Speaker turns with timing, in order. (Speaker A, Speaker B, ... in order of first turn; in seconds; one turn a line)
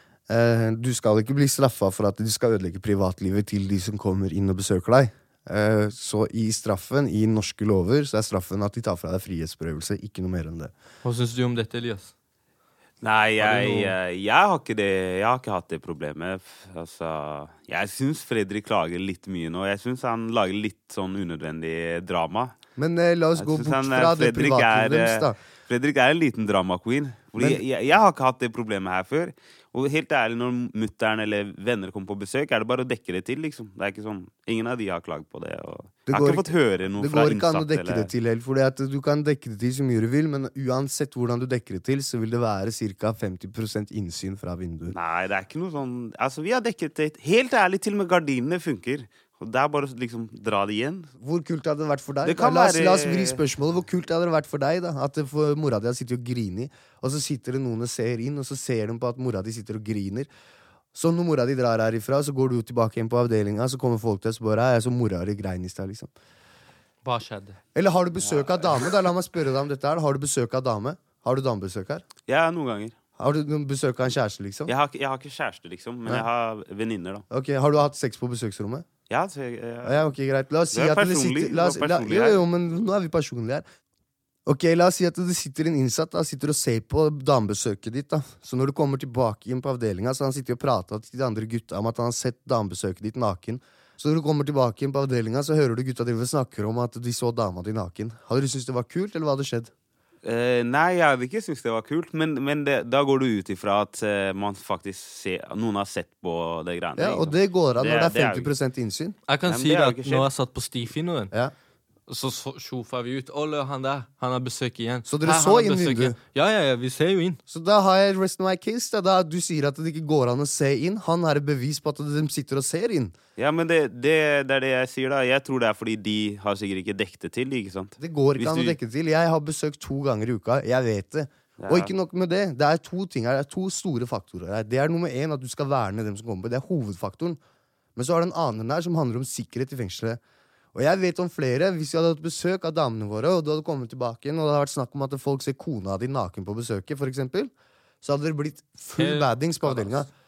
Speaker A: 0.3-10.7
Speaker B: 11.0-12.1
Speaker C: 13.0-22.6
Speaker B: 13.4-13.9
Speaker A: 22.8-25.4
Speaker C: 23.4-38.1
Speaker A: 36.1-44.9
Speaker C: 44.9-51.1
Speaker A: 51.2-60.3
Speaker C: 52.2-53.4
Speaker A: 60.9-66.1
Speaker B: 67.0-67.6
Speaker A: 67.7-72.0
Speaker C: 68.2-68.6
Speaker C: 72.3-73.0
Speaker A: 73.2-74.7
Speaker C: 74.7-77.2
Speaker A: 77.3-78.8
Speaker C: 79.1-80.0
Speaker A: 79.8-83.6
Speaker C: 80.7-82.4
Speaker A: 84.5-99.7
Speaker C: 100.2-108.5
Speaker A: 107.0-109.2
Speaker B: 109.3-111.3
Speaker C: 109.4-110.3
Speaker B: 112.1-117.4
Speaker A: 115.0-116.2
Speaker A: 117.5-123.1
Speaker C: 123.4-128.7
Speaker A: 128.0-137.4
Speaker C: 131.6-131.9
Speaker A: 137.9-140.2
Speaker A: 140.7-150.1
Speaker B: 148.9-150.1